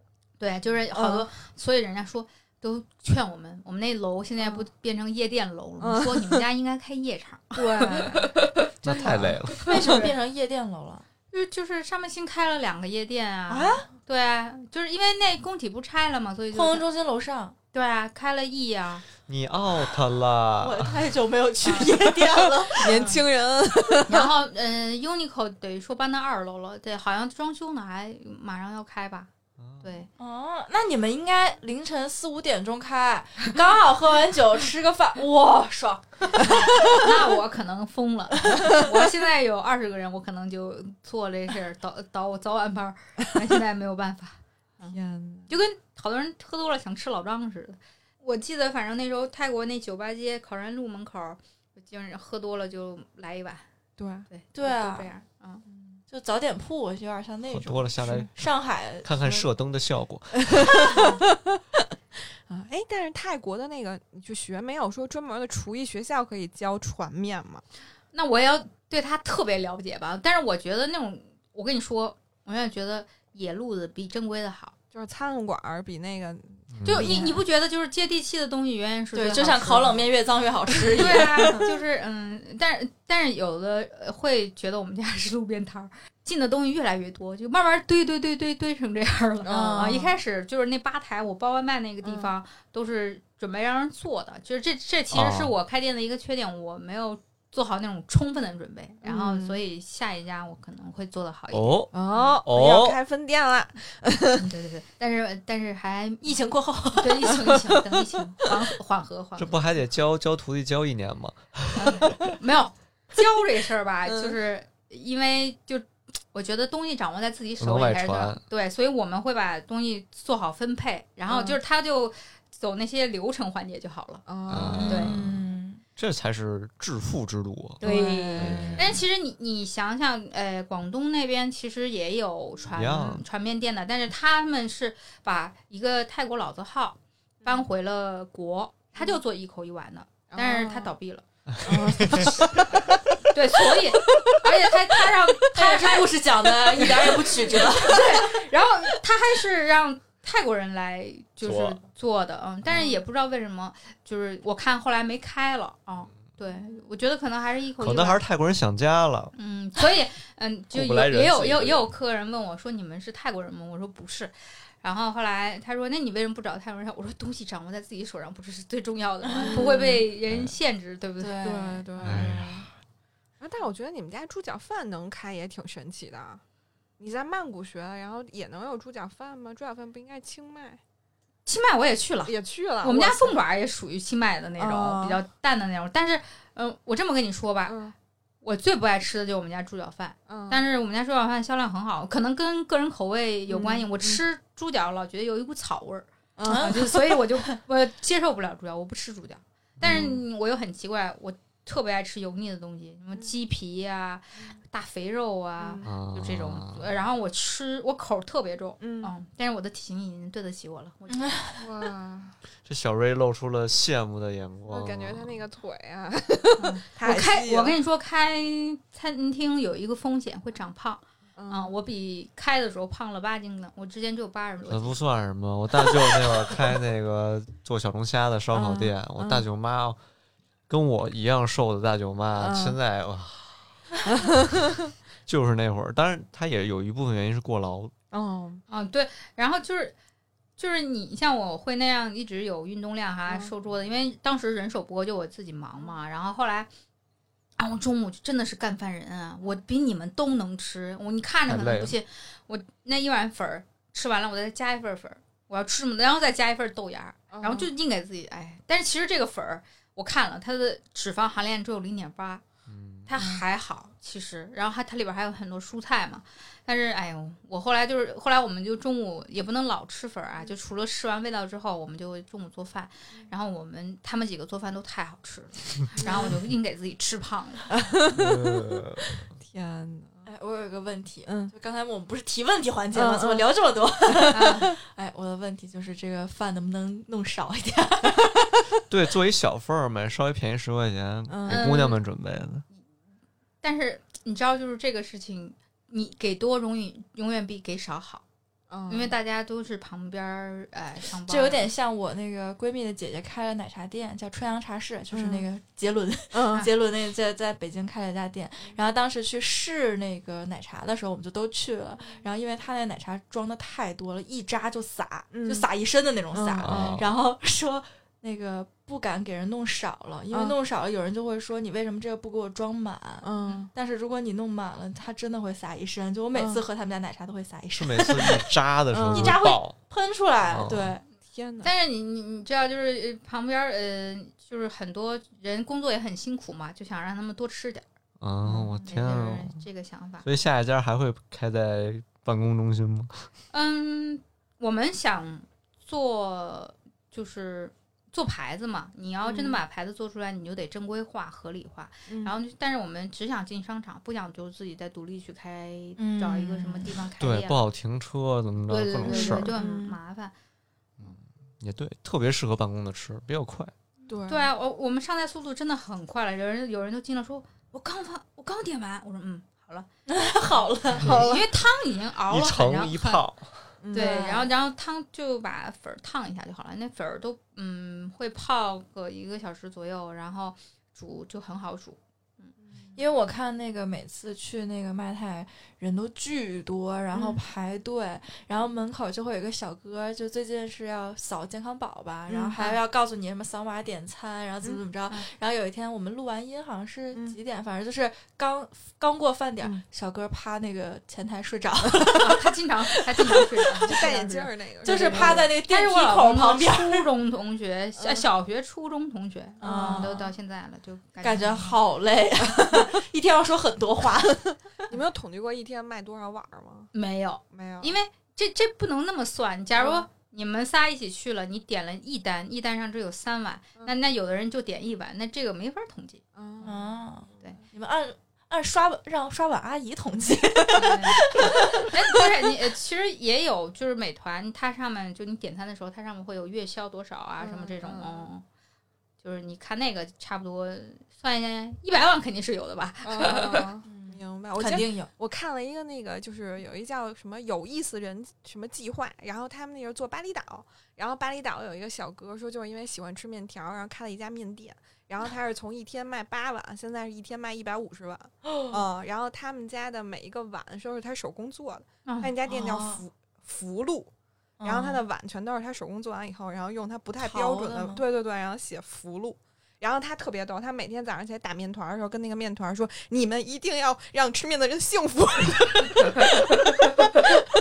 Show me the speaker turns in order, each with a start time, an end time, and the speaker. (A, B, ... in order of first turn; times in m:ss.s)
0:00.4-0:08.4 A
0:00.9-0:01.3 B
0:04.4-0:04.6 B
0:05.8-0:06.4 B
0:07.6-0:10.1 B
0:08.8-0:09.7 C
0:09.0-0:11.0 D
0:09.7-0:10.1 A
0:11.3-0:16.8 A
0:13.5-0:13.9 D
0:16.5-0:17.6 D
0:17.7-0:19.1 A
0:19.3-0:21.0 C
0:20.6-0:23.2 D
0:21.6-0:21.9 A
0:22.4-0:24.3 B
0:22.9-0:23.2 A
0:24.1-0:29.3 A
0:29.6-0:29.9 C
0:29.8-0:30.1 A
0:30.2-0:37.1 D
0:36.4-0:45.0 A
0:44.9-0:45.5 B
0:45.5-0:53.7 A
0:54.0-0:54.3 B
0:54.3-0:55.6 A
0:54.5-0:55.1 D
0:56.1-0:59.5 D
0:57.5-1:00.8 C
1:00.4-1:07.6 B
1:00.9-1:01.2 A
1:08.1-1:14.8 A
1:14.9-1:17.3 B
1:16.7-1:17.1 C
1:16.8-1:20.1 A
1:17.0-1:17.3 D
1:19.1-1:21.7 D
1:20.9-1:42.4 A
1:29.4-1:30.0 B
1:29.5-1:30.1 D
1:32.0-1:32.3 B
1:35.1-1:35.5 C
1:39.0-1:39.6 B
1:41.5-1:43.0 C
1:41.9-1:44.5 B
1:44.3-1:46.4 A
1:46.2-1:47.6 D
1:46.9-1:49.6 A
1:49.4-1:52.2 C
1:51.7-2:04.2 A
1:54.0-1:54.4 B
1:57.6-1:58.4 C
2:01.3-2:01.6 B
2:04.3-2:05.2 B
2:04.5-2:05.4 C
2:04.8-2:05.2 A
2:04.8-2:05.8 D
2:06.0-2:07.8 C
2:07.8-2:21.2 A
2:07.8-2:09.0 B
2:08.3-2:08.7 D
2:08.4-2:09.0 C
2:12.7-2:13.2 C
2:20.3-2:20.9 B
2:21.5-2:22.4 C
2:21.6-2:23.0 B
2:23.3-2:38.2 A
2:23.7-2:24.4 B
2:25.5-2:28.5 D
2:27.1-2:27.6 B
2:31.4-2:31.8 C
2:32.7-2:33.0 B
2:37.8-2:39.3 C
2:39.4-2:51.4 A
2:40.7-2:41.8 C
2:49.2-2:50.0 D
2:49.4-2:50.0 B
2:50.3-2:50.5 C
2:51.2-2:52.6 D
2:51.4-2:52.7 B
2:52.0-2:52.7 C
2:53.4-2:56.4 B
2:57.0-3:00.8 B
3:01.5-3:07.8 A
3:02.3-3:03.4 B
3:04.6-3:05.2 B
3:07.7-3:08.0 B
3:08.4-3:31.3 A
3:10.3-3:10.6 B
3:13.5-3:14.2 B
3:16.4-3:16.9 B
3:16.5-3:17.6 D
3:19.8-3:20.1 C
3:19.8-3:20.2 B
3:25.6-3:25.9 B
3:25.8-3:26.9 C
3:28.8-3:29.1 B
3:31.1-3:31.7 D
3:31.6-3:32.4 B
3:32.6-3:35.4 C
3:34.7-3:37.8 B
3:36.6-3:45.0 A
3:41.4-3:41.7 B
3:44.7-3:50.0 C
3:48.6-3:49.5 B
3:50.7-3:54.1 C
3:52.4-3:52.8 B
3:54.0-3:54.8 B
3:55.3-3:57.9 C
3:58.1-3:58.6 B
3:58.7-3:59.9 A
4:00.6-4:06.7 A
4:07.6-4:22.4 A
4:11.5-4:12.0 C
4:17.3-4:17.7 B
4:22.7-4:23.1 C
4:23.1-4:37.7 A
4:36.0-4:36.4 B
4:36.0-4:36.4 D
4:37.7-4:40.3 B
4:38.1-4:39.3 C
4:40.2-4:48.8 D
4:41.3-4:41.5 B
4:42.9-4:43.5 B
4:44.1-4:44.7 B
4:44.3-4:44.7 A
4:48.9-4:52.6 C
4:51.3-4:51.8 B
4:51.5-4:52.0 A
4:53.6-4:58.2 A
4:58.7-4:59.2 B
4:58.9-5:01.7 A
5:01.2-5:28.5 D
5:05.1-5:05.5 B
5:06.3-5:06.7 B
5:15.3-5:15.7 B
5:16.3-5:17.0 B
5:16.6-5:17.1 C
5:20.3-5:20.6 B
5:23.2-5:23.7 B
5:26.3-5:26.6 B
5:27.8-5:29.8 C
5:28.9-5:29.4 B
5:29.1-5:31.0 D
5:30.5-5:31.0 C
5:31.2-5:31.7 B
5:31.6-5:37.8 A
5:38.2-5:39.6 C
5:38.8-5:40.2 A
5:40.2-5:43.3 C
5:43.5-5:57.6 A
5:49.2-5:49.6 B
5:52.1-5:52.4 B
5:56.0-5:57.0 D
5:57.2-5:59.6 C
5:58.7-6:00.3 A
5:59.0-6:00.0 B
6:01.0-6:03.7 C
6:04.1-6:04.5 B
6:04.3-6:09.9 A
6:10.1-6:11.2 D
6:11.0-6:11.6 B
6:11.1-6:13.2 A
6:12.3-6:13.7 C
6:13.8-6:14.3 B
6:13.9-6:14.5 D
6:13.9-6:22.5 A
6:22.7-6:22.9 B
6:23.0-6:44.0 D
6:27.1-6:27.4 B
6:32.3-6:32.8 B
6:37.1-6:37.4 B
6:42.2-6:51.8 A
6:43.8-6:45.5 B
6:44.8-6:47.1 D
6:48.0-6:48.3 B
6:49.6-6:50.2 B
6:49.6-6:50.3 D
6:51.2-6:54.9 D
6:54.9-6:56.9 B
6:56.9-7:06.7 A
6:57.5-6:58.0 B
6:59.8-7:00.1 B
7:06.4-7:07.6 B
7:06.6-7:12.3 D
7:10.7-7:18.4 A
7:17.4-7:18.3 B
7:19.2-7:23.7 A
7:23.0-7:44.1 B
7:23.8-7:25.1 D
7:38.4-7:38.8 D
7:42.1-7:42.3 A
7:42.5-7:43.0 D
7:44.6-7:45.0 D
7:44.6-7:57.4 B
7:47.2-7:48.0 D